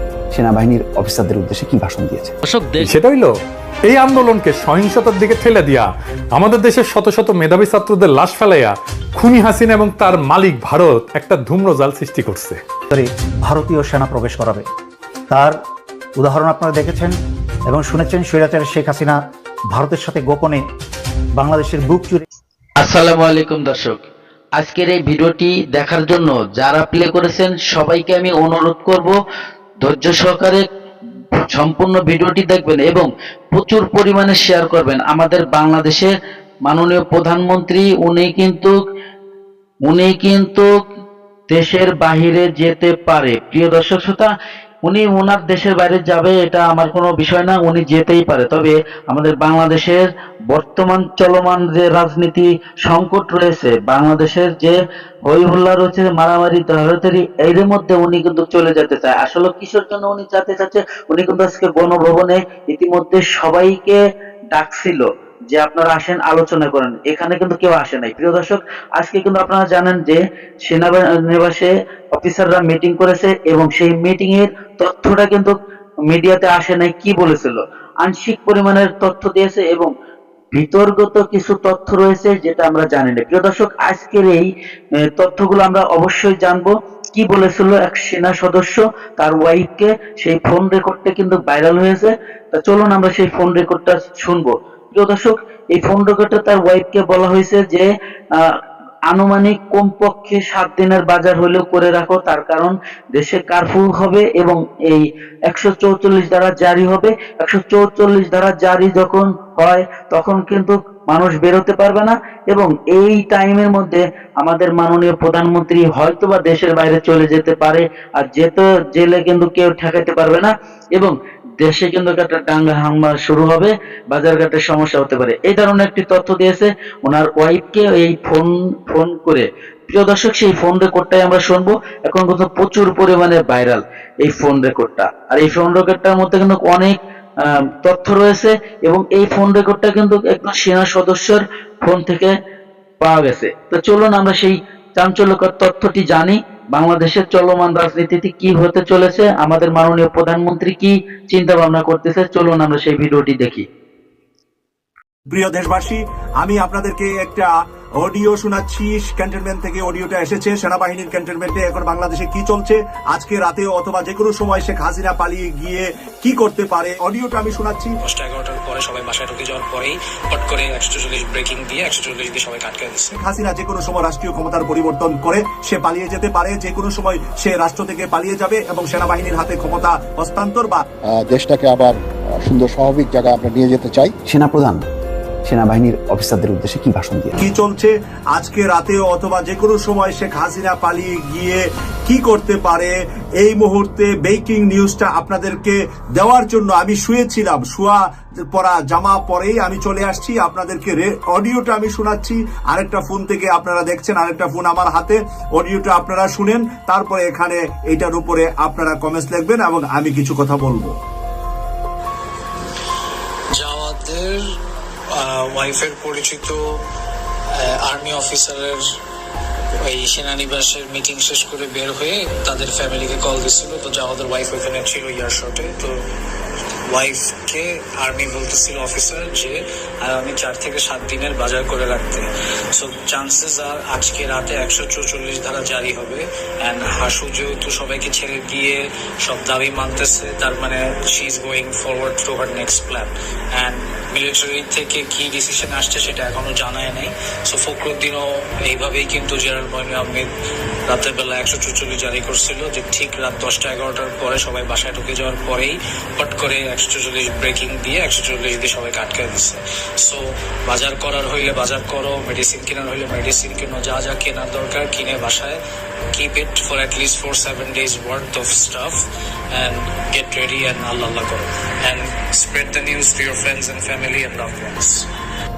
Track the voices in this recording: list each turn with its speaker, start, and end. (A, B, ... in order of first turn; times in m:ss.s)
0:00.3-0:02.3 A
0:02.8-0:03.3 B
0:03.9-0:12.6 B
0:12.9-0:14.6 C
0:15.3-0:15.6 C
0:16.2-0:17.2 C
0:17.7-0:19.2 C
0:19.7-0:20.6 C
0:21.4-0:22.2 C
0:22.8-0:24.0 D
0:24.6-0:29.2 D
0:29.8-0:30.6 D
0:31.5-0:36.1 D
0:36.7-0:38.7 D
0:39.9-0:40.7 D
0:41.5-0:44.3 D
0:44.8-1:04.0 D
1:04.5-1:15.5 D
1:16.1-1:19.9 D
1:20.5-1:24.5 D
1:25.2-1:37.9 D
1:39.1-2:22.3 D
2:23.0-2:33.6 D
2:35.3-2:47.9 E
2:48.0-2:53.1 F
2:53.1-3:00.8 E
3:01.2-3:04.2 G
3:04.3-3:04.8 A
3:05.4-3:07.3 A
3:07.4-3:31.0 E
3:33.5-3:34.4 F
3:35.1-3:36.8 F
3:37.6-3:38.8 F
3:39.8-3:46.0 F
3:46.9-4:10.3 F
4:10.9-4:25.6 F
4:26.1-4:35.1 F